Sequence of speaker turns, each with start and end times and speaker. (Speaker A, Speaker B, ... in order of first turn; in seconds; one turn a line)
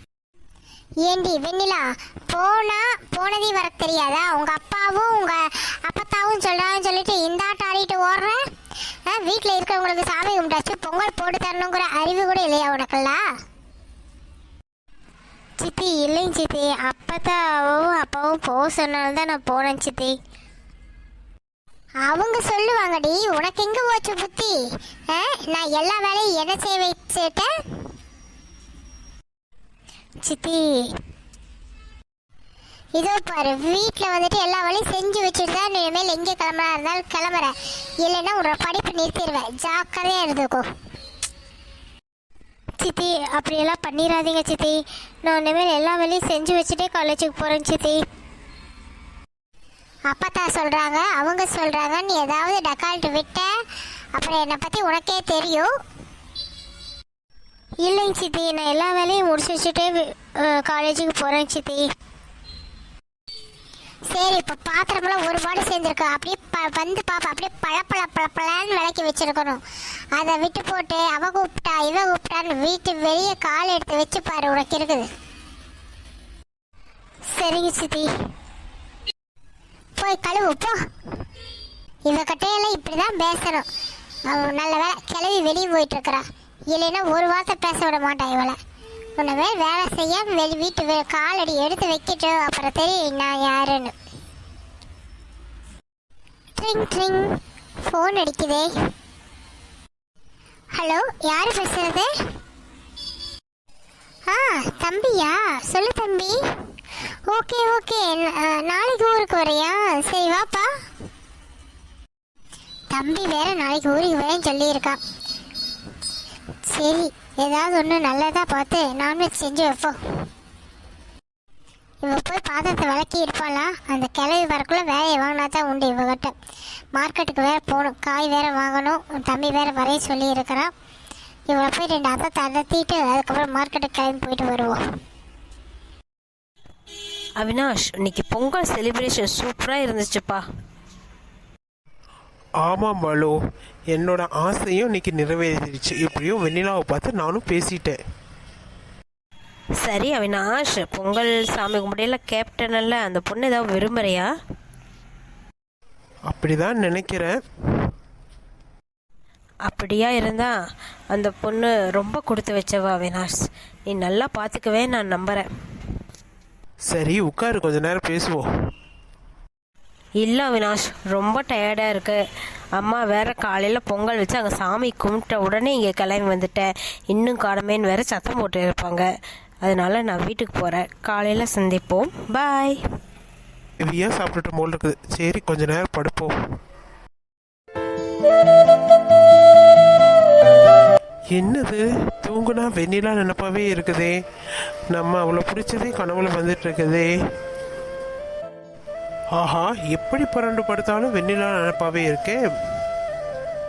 Speaker A: 1.0-8.4
Speaker A: 9.1-13.2
Speaker A: 15.6-20.1
Speaker A: 22.1-24.6
Speaker A: 25.1-27.5
Speaker A: 30.2-30.9
Speaker A: 33.0-40.6
Speaker A: 42.8-48.0
Speaker A: 50.1-53.5
Speaker A: 54.1-55.7
Speaker A: 57.8-61.9
Speaker A: 64.1-69.6
Speaker A: 70.2-75.1
Speaker A: 77.3-78.1
Speaker A: 80.0-80.8
Speaker A: 82.1-83.7
Speaker A: 84.3-88.6
Speaker A: 89.2-93.9
Speaker A: 96.6-98.7
Speaker A: 100.8-102.1
Speaker A: 104.3-106.4
Speaker A: 107.3-110.7
Speaker A: 112.9-115.0
Speaker A: 116.7-120.0
Speaker A: 122.0-126.3
Speaker A: 127.0-130.7
Speaker A: 131.5-134.8
Speaker B: 137.4-140.4
Speaker C: 142.6-143.3
Speaker C: 143.9-148.0
Speaker B: 149.8-154.3
Speaker C: 156.3-157.4
Speaker B: 159.7-160.5
Speaker B: 161.1-163.3
Speaker B: 163.9-165.5
Speaker C: 166.9-168.5
Speaker B: 170.2-172.2
Speaker B: 172.8-179.1
Speaker B: 179.6-182.8
Speaker C: 183.8-186.3
Speaker C: 191.3-194.2
Speaker C: 194.9-197.1
Speaker C: 199.4-202.4